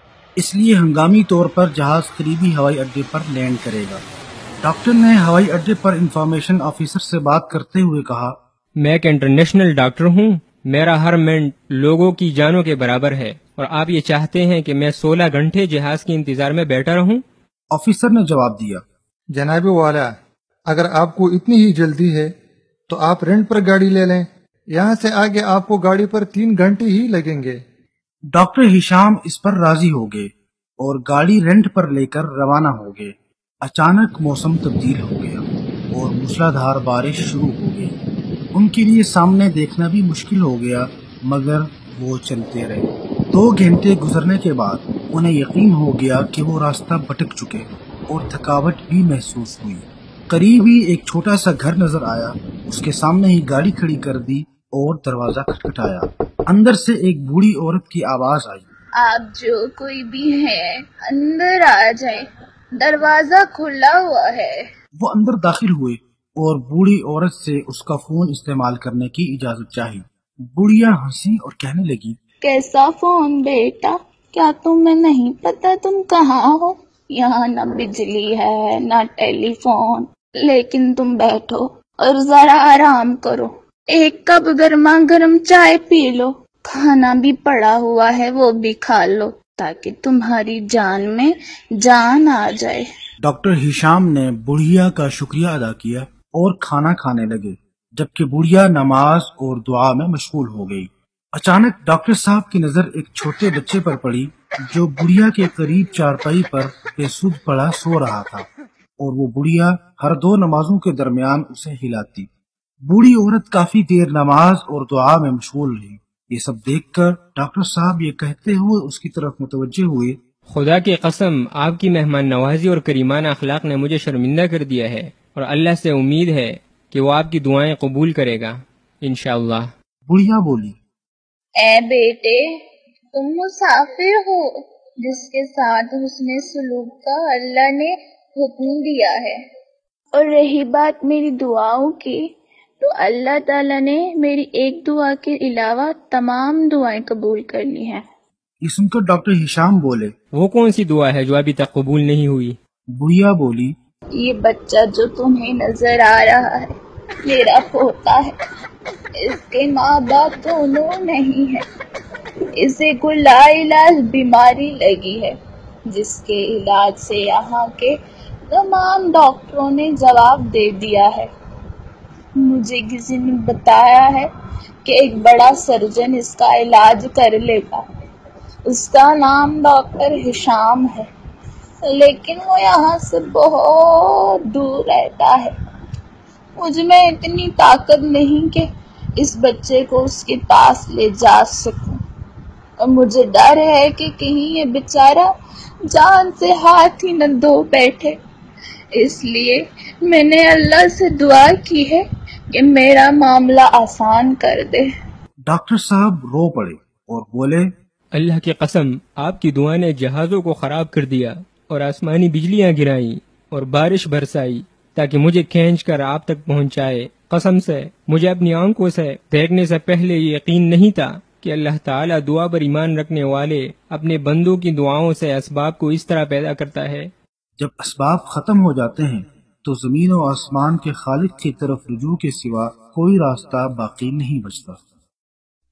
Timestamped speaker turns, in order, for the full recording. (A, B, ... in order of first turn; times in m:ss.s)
0:00.4-0:04.0 A
0:04.6-0:08.4 A
0:08.8-0:17.2 B
0:17.7-0:18.8 A
0:19.3-0:22.3 C
0:22.9-0:27.6 C
0:28.3-0:38.0 A
0:38.5-0:58.7 A
0:59.0-1:02.2 D
1:02.8-1:04.6 D
1:05.0-1:12.2 A
1:12.4-1:32.8 D
1:33.2-1:48.4 A
1:49.0-1:52.3 A
1:52.9-2:00.2 A
2:00.5-2:09.7 B
2:10.1-2:10.8 A
2:11.6-2:12.4 D
2:13.1-2:14.4 D
2:15.0-2:19.4 D
2:20.1-2:22.2 D
2:22.8-2:28.0 D
2:28.6-2:30.1 A
2:30.3-2:32.6 B
2:33.0-2:33.7 A
2:34.2-2:36.7 D
2:37.2-2:38.3 D
2:39.2-2:41.6 D
2:42.6-2:45.3 D
2:45.9-2:48.0 D
2:48.5-2:51.3 D
2:52.4-2:54.3 D
2:54.8-2:57.8 D
2:58.7-3:01.1 D
3:01.8-3:05.5 D
3:06.6-3:08.6 D
3:09.2-3:12.0 D
3:12.8-3:15.3 D
3:15.9-3:18.2 D
3:18.9-3:24.9 D
3:25.5-3:27.7 A
3:28.1-3:47.1 B
3:47.6-3:54.8 A